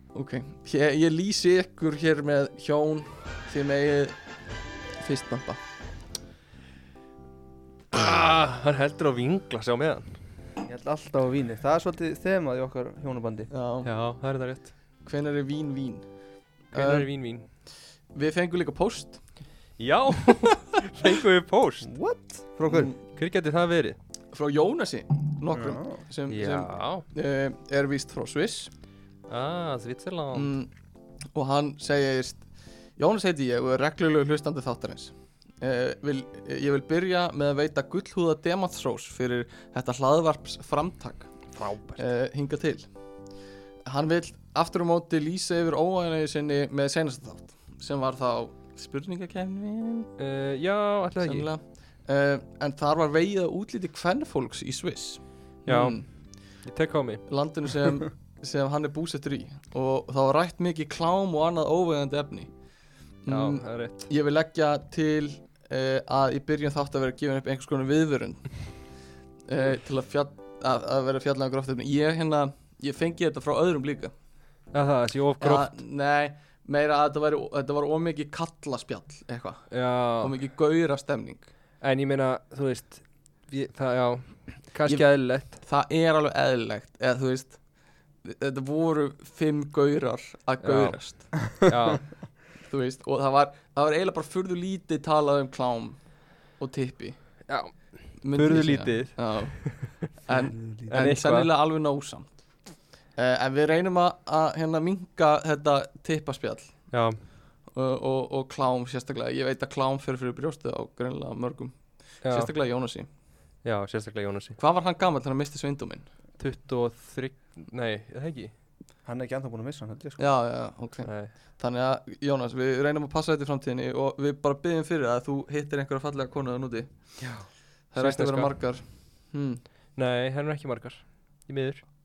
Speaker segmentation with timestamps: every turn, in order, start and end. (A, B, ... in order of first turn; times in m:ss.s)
0:00.1-0:04.2 A
0:05.0-0:05.6 A
0:07.9-0:10.1 B
0:10.6-0:13.5 C
0:13.5-0:13.9 A
0:13.8-0:14.7 B
0:15.0-0:16.0 A
0:16.7-0:17.1 A
0:16.7-0:17.5 B
0:18.1-0:19.2 A
0:19.8-0:21.9 B
0:21.8-0:22.9 C
0:22.7-0:23.0 A
0:23.0-0:24.0 B
0:24.3-0:28.7 A
0:25.5-0:26.0 C
0:26.3-0:27.0 B
0:29.3-0:30.5 B
0:30.3-0:30.7 A
0:31.3-0:32.4 A
0:33.0-0:41.3 A
0:41.5-0:42.0 B
0:42.0-0:42.9 A
0:43.8-0:50.1 A
0:50.2-0:51.5 B
0:51.2-0:56.0 A
0:55.7-0:56.0 B
0:56.6-0:57.2 B
0:57.3-1:02.5 A
1:03.2-1:08.5 A
1:03.3-1:04.1 B
1:09.5-1:14.1 A
1:14.7-1:15.7 B
1:15.4-1:21.5 A
1:19.7-1:20.4 B
1:21.8-1:25.6 B
1:24.9-1:27.6 A
1:28.2-1:31.4 A
1:30.6-1:32.3 B
1:32.6-1:37.2 A
1:37.5-1:39.9 B
1:38.2-1:42.4 A
1:40.3-1:41.0 C
1:40.9-1:41.5 B
1:43.2-1:46.8 A
1:46.9-1:47.2 B
1:47.7-1:53.1 A
1:52.2-1:52.5 B
1:53.6-1:54.6 B
1:54.6-1:56.0 A
1:56.4-1:58.5 B
1:59.0-2:00.2 C
2:00.2-2:06.9 A
2:01.0-2:01.3 B
2:07.2-2:08.5 B
2:07.9-2:09.6 A
2:10.0-2:11.8 B